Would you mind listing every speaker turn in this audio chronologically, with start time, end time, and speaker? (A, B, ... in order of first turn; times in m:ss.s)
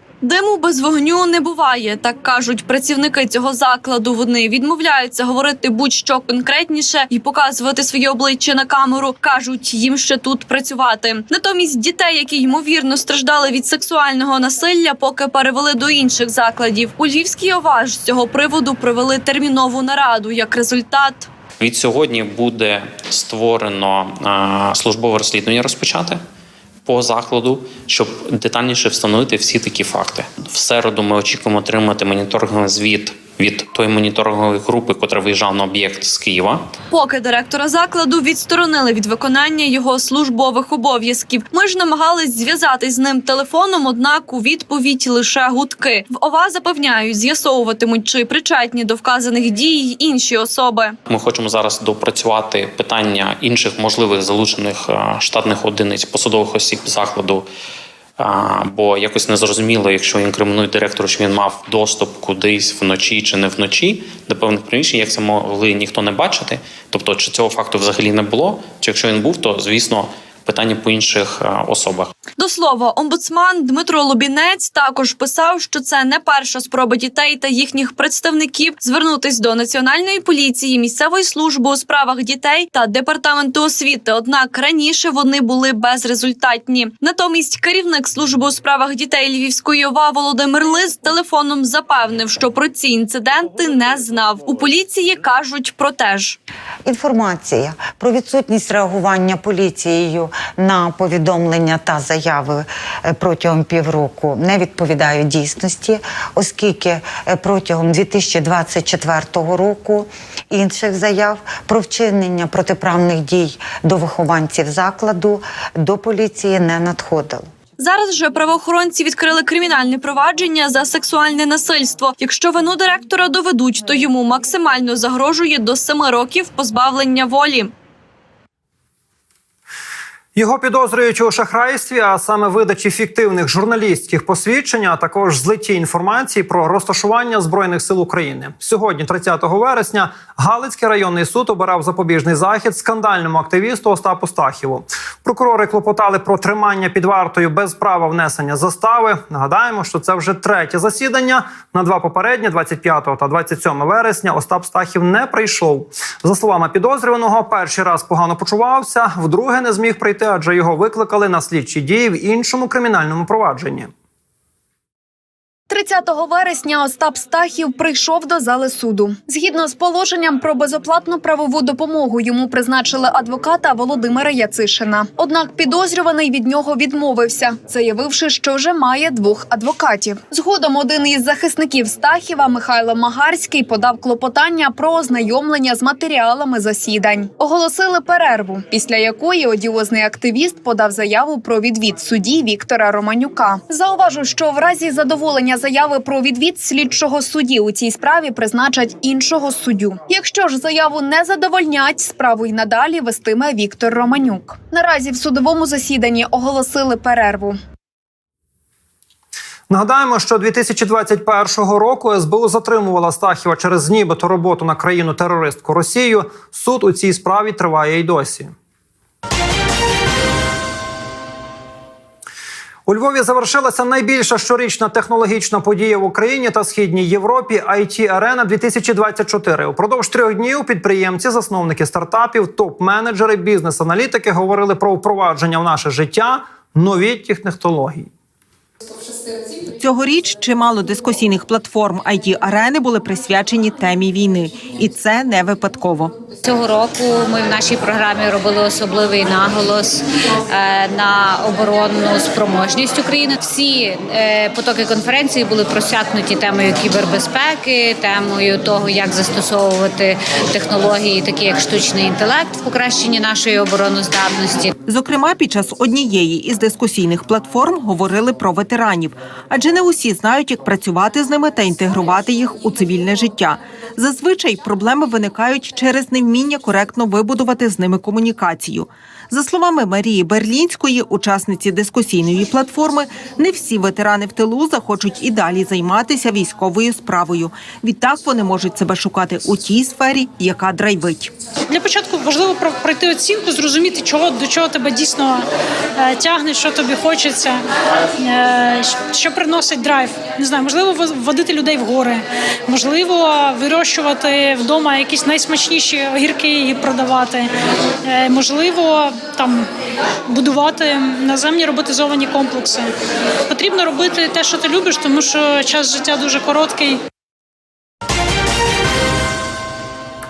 0:00.2-0:21.3 A
0:21.6-0:26.2 B
0:26.8-0:36.6 B
0:36.9-0:50.9 A
0:51.1-0:57.4 B
0:58.2-1:12.1 B
1:12.4-1:36.4 A
1:36.8-1:57.5 C
1:57.8-2:07.7 A
2:10.4-2:43.9 D
2:45.7-3:27.6 E
3:29.7-3:38.5 D
3:42.9-3:58.1 D
3:59.7-4:06.1 F
4:06.4-4:24.8 G
4:24.9-4:51.3 F
4:51.7-4:55.4 H
4:56.0-4:57.6 H
4:58.2-5:07.5 H
5:08.0-5:09.7 H
5:10.3-5:12.9 H
5:13.5-5:17.0 H